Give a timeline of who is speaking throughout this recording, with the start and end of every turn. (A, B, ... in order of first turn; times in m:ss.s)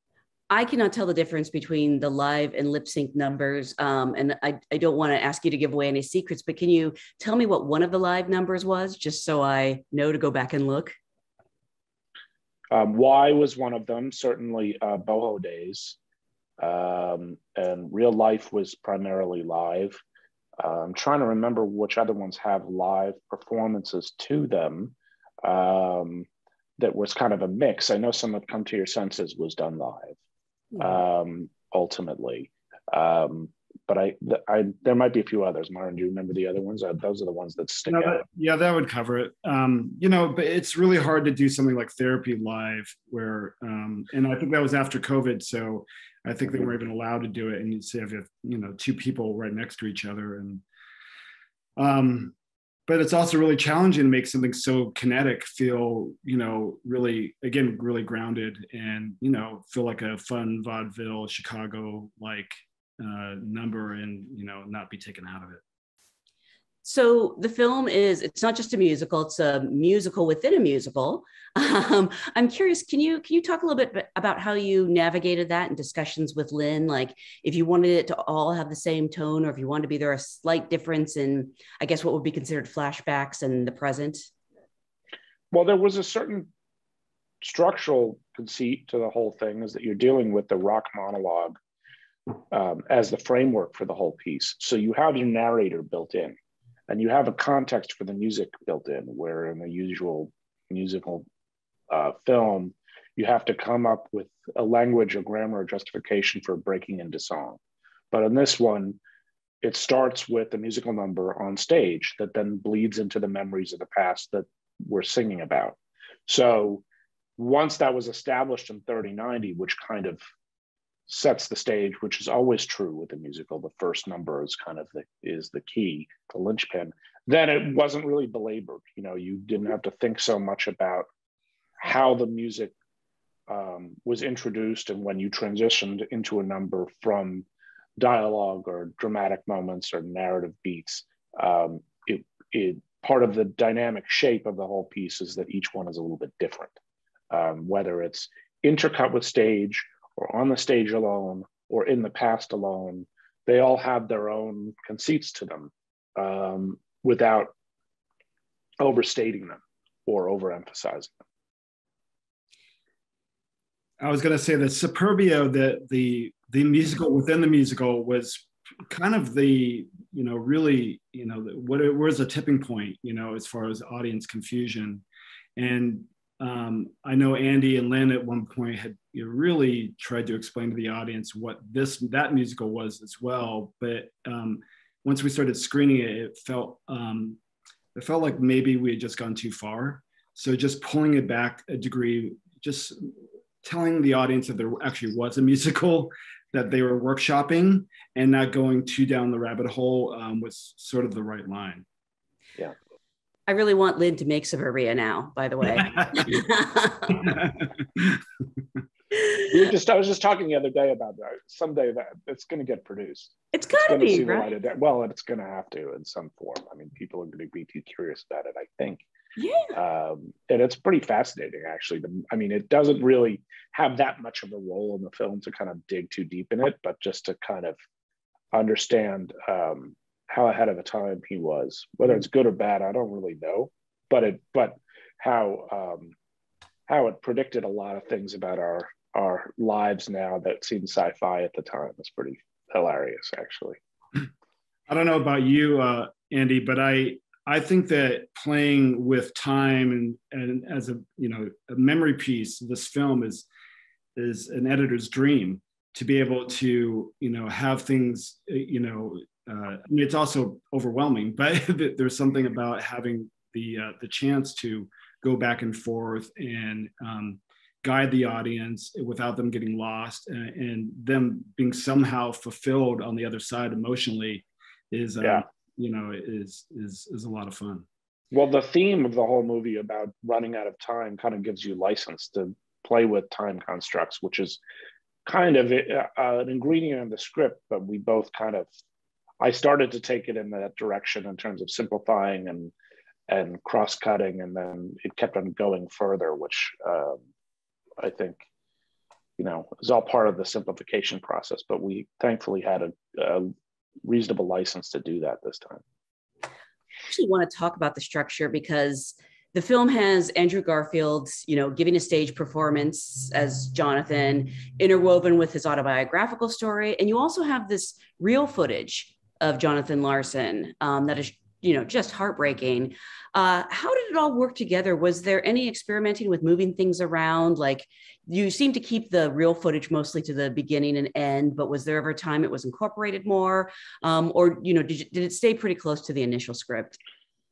0:00.5-0:10.9 A
0:12.7-0:16.0 B
0:16.6-0:20.0 B
0:20.6-0:26.3 B
0:26.8-0:30.2 B
0:30.8-0:38.2 B
0:37.8-0:50.6 C
0:51.8-0:52.3 C
0:52.9-1:05.6 C
1:06.8-1:24.3 A
1:25.5-1:26.5 B
1:27.4-1:31.6 B
1:32.5-1:36.4 B
1:36.9-1:41.3 B
1:41.9-1:47.6 B
1:48.1-1:49.0 B
1:49.6-1:55.8 B
1:56.3-1:56.8 B
1:57.4-2:00.2 B
2:01.1-2:11.1 B
2:11.8-2:12.7 B
2:13.5-2:17.4 B
2:18.0-2:26.7 B
2:27.3-2:37.5 B
2:38.8-2:41.1 B
2:44.0-2:55.0 C
2:55.6-3:07.4 C
3:07.9-3:13.1 C
3:13.6-3:21.8 C
3:23.5-3:27.3 A
3:25.8-3:26.2 C
3:27.2-3:28.2 C
3:29.4-3:39.0 B
3:33.5-3:34.5 A
3:39.4-3:39.7 A
3:39.7-3:47.7 B
3:48.5-3:56.1 B
3:56.9-4:03.8 B
4:04.9-4:13.5 C
4:14.2-4:37.8 C
4:38.3-4:44.6 B
4:45.2-4:48.7 B
4:49.4-4:52.7 B
4:53.3-4:57.2 B
4:58.0-4:58.4 B
4:59.4-5:03.5 B
5:04.0-5:05.8 B
5:07.1-5:37.0 A